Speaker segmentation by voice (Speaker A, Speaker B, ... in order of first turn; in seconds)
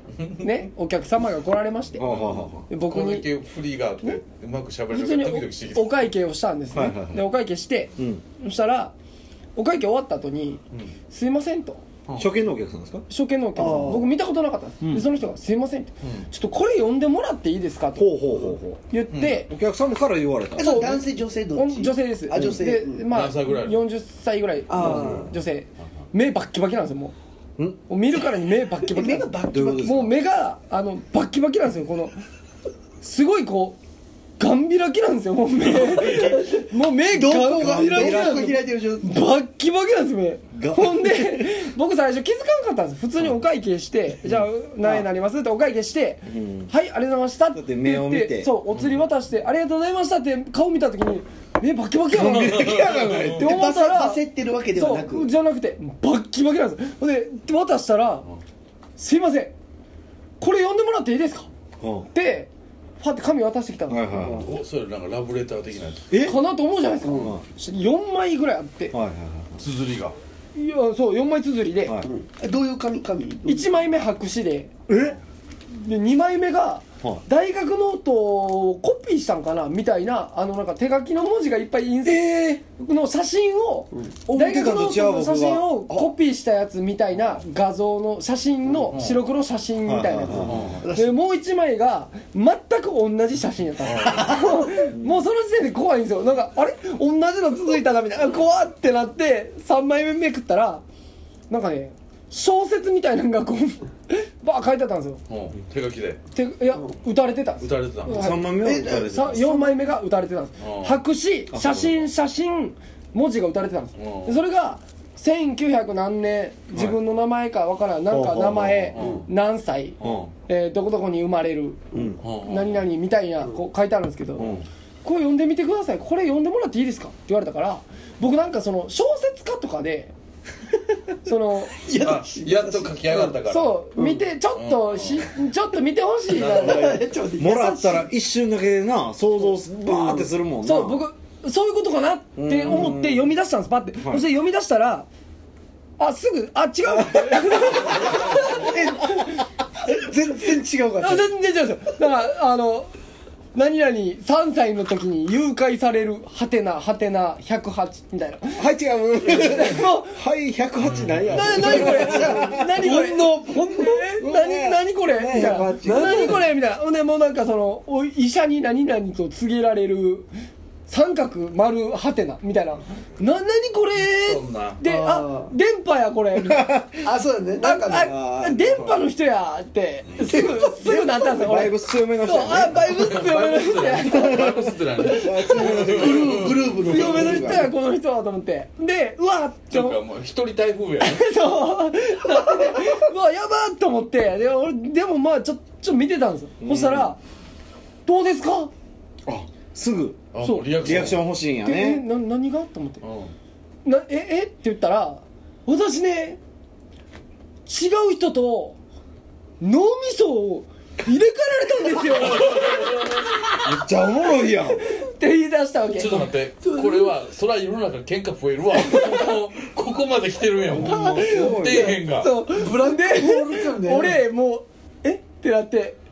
Speaker A: 0.2-0.5, 2.0-6.1, 16.0-16.3, 19.1-19.5, 23.1-23.8, 48.7-49.0, 52.2-53.2, 64.4-66.1, 69.6-70.2, 88.9-89.2, 90.5-90.8, 93.8-94.5, 105.3-106.2, 107.6-108.4, 110.6-111.0, 114.0-114.4, 119.0-119.3, 120.0-120.3, 122.2-122.9, 131.9-133.8, 134.5-135.3, 136.3-136.9, 148.0-148.5, 160.8-161.8, 174.0-174.8, 180.1-180.4, 182.9-187.0, 189.7-191.3, 200.3-201.2, 203.0-203.3, 212.3-212.9, 215.9-222.4
Speaker B: 0.4-2.0, 2.7-3.3, 4.9-8.9, 9.6-11.8, 13.1-18.1, 18.9-19.5, 20.6-27.1, 27.9-32.2, 33.0-33.8, 34.4-58.3, 59.0-59.5, 60.4-61.5, 62.1-64.2, 66.2-69.0, 70.5-72.0, 73.5-74.7, 75.7-100.8, 101.5-105.2, 106.3-121.9, 122.4-124.5, 125.0-130.1, 131.2-131.8, 133.5-136.9, 139.4-145.1, 146.0-149.3, 151.0-152.9, 153.5-158.6, 159.3-160.2, 161.3-170.3, 170.9-176.8, 177.6-184.5, 186.8-190.0, 191.0-197.2, 198.1-198.7, 200.4-201.1, 201.6-203.0, 203.8-206.4, 207.7-208.8, 209.6-213.1, 214.7-216.2, 218.8-219.3, 220.8-226.0
Speaker C: 1.9-2.7, 6.7-7.3, 8.0-8.2, 12.2-13.1, 14.8-15.1, 18.0-20.9, 24.8-25.2, 29.5-30.1, 37.3-38.6, 40.5-41.5, 44.2-45.1, 46.3-46.7, 47.5-48.6, 61.8-62.1, 63.9-64.5, 66.1-66.4, 67.1-67.4, 68.9-69.6, 74.9-75.2, 84.3-86.1, 89.8-90.8, 94.1-95.2, 108.1-109.5, 111.5-111.9, 118.1-119.1, 120.0-120.3, 121.9-122.2, 124.4-124.7, 137.4-141.1, 142.4-143.3, 144.0-144.3, 147.0-147.2, 158.6-162.8, 164.2-166.4, 176.3-177.0, 177.9-179.0, 181.4-182.9, 184.1-187.7, 196.6-197.2, 199.3-200.2, 200.8-202.0, 213.7-214.9, 220.7-222.0
Speaker D: 13.6-14.1, 20.6-23.1, 24.7-25.4, 28.8-30.1, 36.1-39.2, 52.3-55.3, 64.1-64.5, 72.0-73.7, 90.4-91.2, 108.5-109.7, 121.9-122.2, 131.7-133.4, 133.9-134.2, 136.3-138.1, 148.6-148.9, 149.8-151.3, 161.6-164.2, 165.8-166.5, 174.8-175.5, 177.0-178.1, 180.2-181.6, 185.6-187.7, 216.6-217.2, 222.5-224.2